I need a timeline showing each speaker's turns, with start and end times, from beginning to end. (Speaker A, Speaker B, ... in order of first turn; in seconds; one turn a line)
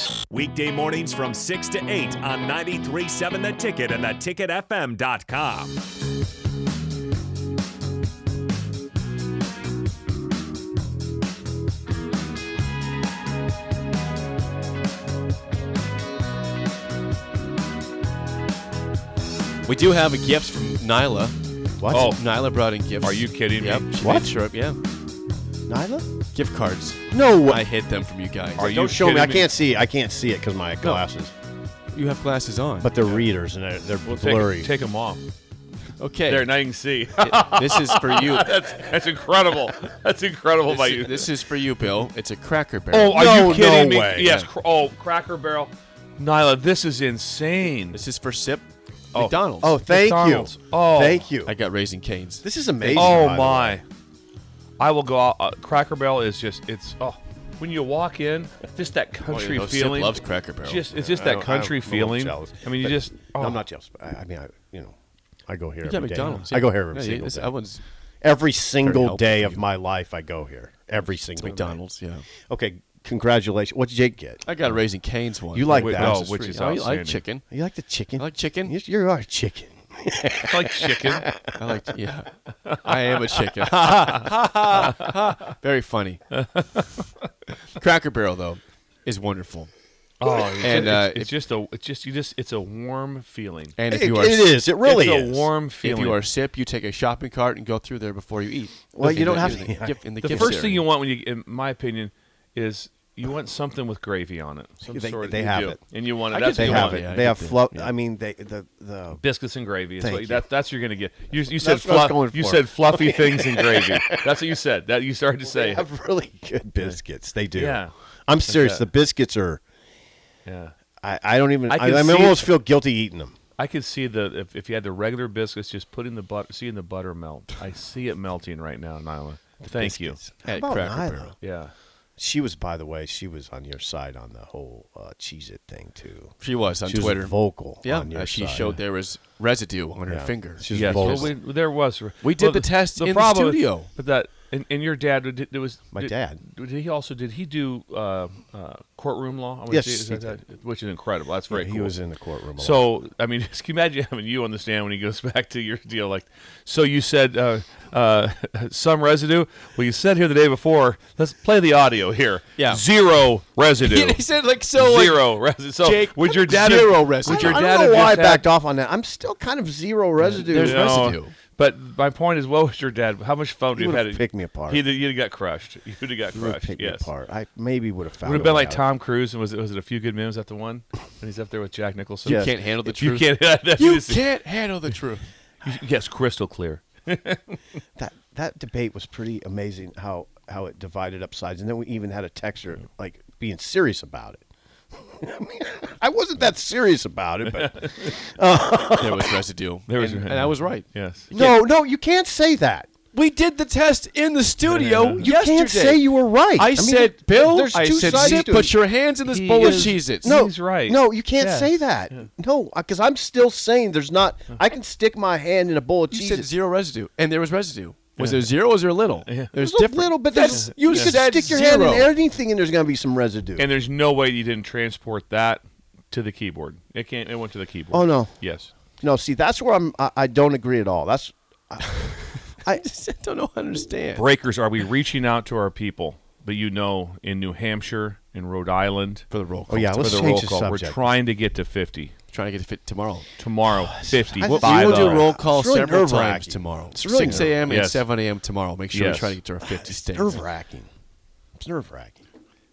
Speaker A: 0.3-5.8
Speaker B: 19.6-21.4
Speaker C: 21.8-22.2
Speaker D: 21.9-22.2
Speaker B: 22.1-24.8
Speaker D: 23.0-24.0
Speaker C: 24.0-24.3
Speaker C: 25.7-26.1
Speaker B: 26.3-28.7
Speaker C: 27.1-27.6
Speaker D: 28.6-29.5
Speaker C: 28.6-31.3
Speaker B: 31.9-32.9
Speaker C: 32.8-34.7
Speaker D: 34.0-35.2
Speaker B: 36.0-36.5
Speaker D: 36.3-41.3
Speaker B: 37.2-38.5
Speaker B: 40.7-43.2
Speaker D: 42.9-48.0
Speaker C: 43.1-44.5
Speaker B: 47.9-49.8
Speaker C: 49.6-51.5
Speaker D: 49.9-51.3
Speaker B: 51.4-52.5
Speaker C: 52.4-53.8
Speaker D: 52.9-53.8
Speaker D: 54.8-63.6
Speaker B: 59.2-60.9
Speaker C: 61.0-65.0
Speaker C: 65.5-67.5
Speaker B: 65.8-67.8
Speaker C: 68.2-71.8
Speaker B: 68.8-69.6
Speaker B: 71.3-72.3
Speaker C: 72.5-74.5
Speaker B: 74.5-77.5
Speaker C: 75.5-76.5
Speaker D: 75.7-77.2
Speaker C: 77.5-81.5
Speaker B: 78.2-78.8
Speaker D: 80.4-81.3
Speaker B: 81.5-86.2
Speaker C: 83.7-84.9
Speaker D: 83.7-85.1
Speaker D: 86.3-87.1
Speaker B: 87.8-89.7
Speaker D: 90.2-93.8
Speaker B: 90.6-91.3
Speaker B: 93.8-94.5
Speaker C: 93.9-95.5
Speaker D: 94.8-96.2
Speaker B: 95.8-100.9
Speaker C: 98.9-100.6
Speaker D: 99.0-99.6
Speaker D: 100.2-107.0
Speaker C: 104.9-105.8
Speaker B: 105.3-105.8
Speaker B: 106.3-107.9
Speaker C: 106.6-109.2
Speaker D: 109.2-115.8
Speaker C: 110.0-110.5
Speaker C: 111.6-114.3
Speaker C: 115.4-119.6
Speaker D: 117.5-117.9
Speaker D: 118.5-118.9
Speaker D: 120.5-120.7
Speaker C: 121.0-123.3
Speaker D: 121.7-122.5
Speaker D: 123.6-130.2
Speaker C: 129.6-131.3
Speaker B: 130.4-131.3
Speaker D: 131.4-131.7
Speaker C: 132.2-136.3
Speaker B: 136.4-141.3
Speaker C: 136.8-138.8
Speaker C: 140.1-141.3
Speaker D: 140.7-151.9
Speaker B: 142.2-143.9
Speaker C: 145.9-146.4
Speaker C: 149.7-150.4
Speaker C: 151.5-152.8
Speaker D: 152.6-168.4
Speaker B: 162.6-162.8
Speaker B: 163.8-165.3
Speaker B: 165.8-168.1
Speaker C: 167.3-170.8
Speaker B: 170.3-171.3
Speaker D: 170.4-177.1
Speaker C: 173.8-174.8
Speaker C: 176.3-178.8
Speaker D: 178.2-184.3
Speaker C: 182.2-182.6
Speaker B: 182.2-185.3
Speaker D: 185.6-187.6
Speaker C: 188.0-194.4
Speaker C: 195.0-199.4
Speaker D: 197.4-198.1
Speaker B: 199.0-201.6
Speaker D: 199.9-201.3
Speaker C: 201.3-202.9
Speaker B: 203.1-210.3
Speaker D: 204.7-205.3
Speaker C: 205.2-208.7
Speaker D: 208.0-208.5
Speaker D: 209.2-212.2
Speaker C: 209.6-216.5
Speaker B: 216.1-222.1
Speaker D: 218.2-218.5
Speaker C: 219.6-223.7
Speaker D: 220.5-221.3
Speaker D: 223.6-228.7
Speaker C: 227.9-228.4
Speaker C: 229.0-232.8
Speaker B: 231.9-234.3
Speaker D: 234.2-239.3
Speaker B: 239.3-240.4
Speaker C: 239.7-241.2
Speaker D: 240.0-242.1
Speaker B: 242.3-243.3
Speaker D: 243.4-245.3
Speaker C: 244.1-247.6
Speaker B: 244.4-250.4
Speaker D: 247.2-248.1
Speaker D: 248.9-249.4
Speaker C: 249.7-250.9
Speaker C: 251.6-252.2